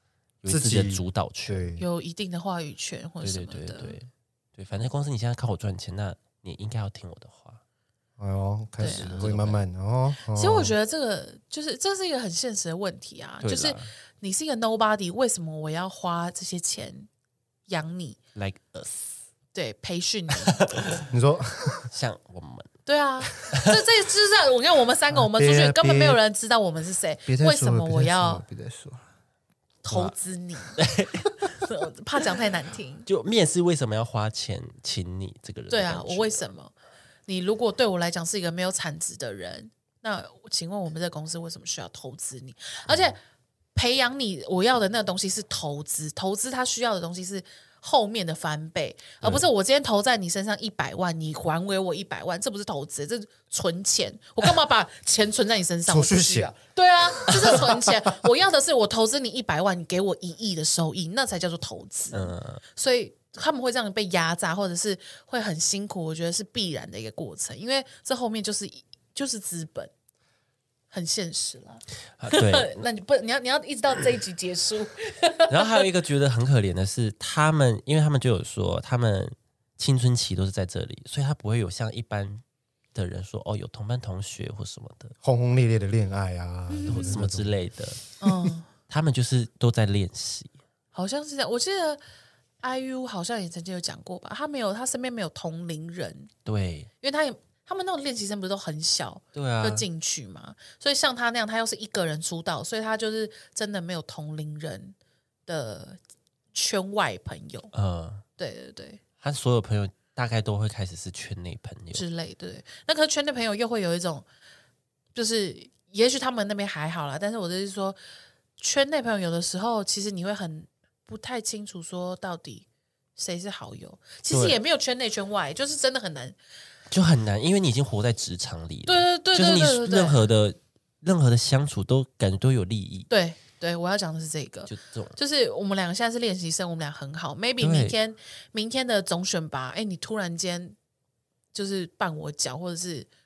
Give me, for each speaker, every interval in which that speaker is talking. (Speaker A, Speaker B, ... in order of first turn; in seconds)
Speaker A: 0.4-1.7, 3.2-7.6, 8.8-9.6, 13.4-13.9, 18.4-19.2, 20.5-21.1, 21.9-22.7, 23.5-23.8, 29.9-30.1, 30.8-31.5, 33.1-36.5, 49.2-49.5, 62.1-62.6, 72.2-72.8, 75.5-82.4, 82.9-85.1, 86.8-88.0, 88.9-90.5, 96.5-96.9, 99.3-99.8, 107.7-108.2, 109.2-112.0, 124.3-124.6, 126.9-133.1, 134.7-135.2, 137.6-138.0
Speaker B: 0.5-1.8, 8.2-10.8, 21.1-21.9, 25.1-26.2, 27.3-29.1, 55.9-56.5, 57.2-58.1, 85.2-87.5
Speaker C: 1.8-4.0, 8.8-9.3, 10.3-17.1, 17.7-18.2, 19.5-20.6, 22.9-28.4, 29.8-30.8, 31.4-33.1, 35.7-36.7, 37.3-43.2, 43.8-69.9, 70.9-75.9, 86.7-87.2, 88.2-88.7, 90.9-92.0, 92.6-96.3, 97.0-105.0, 105.5-106.0, 106.5-107.7, 108.4-109.0, 111.9-114.2, 115.2-118.0, 118.6-126.4, 128.9-130.2, 133.1-140.8, 141.5-143.1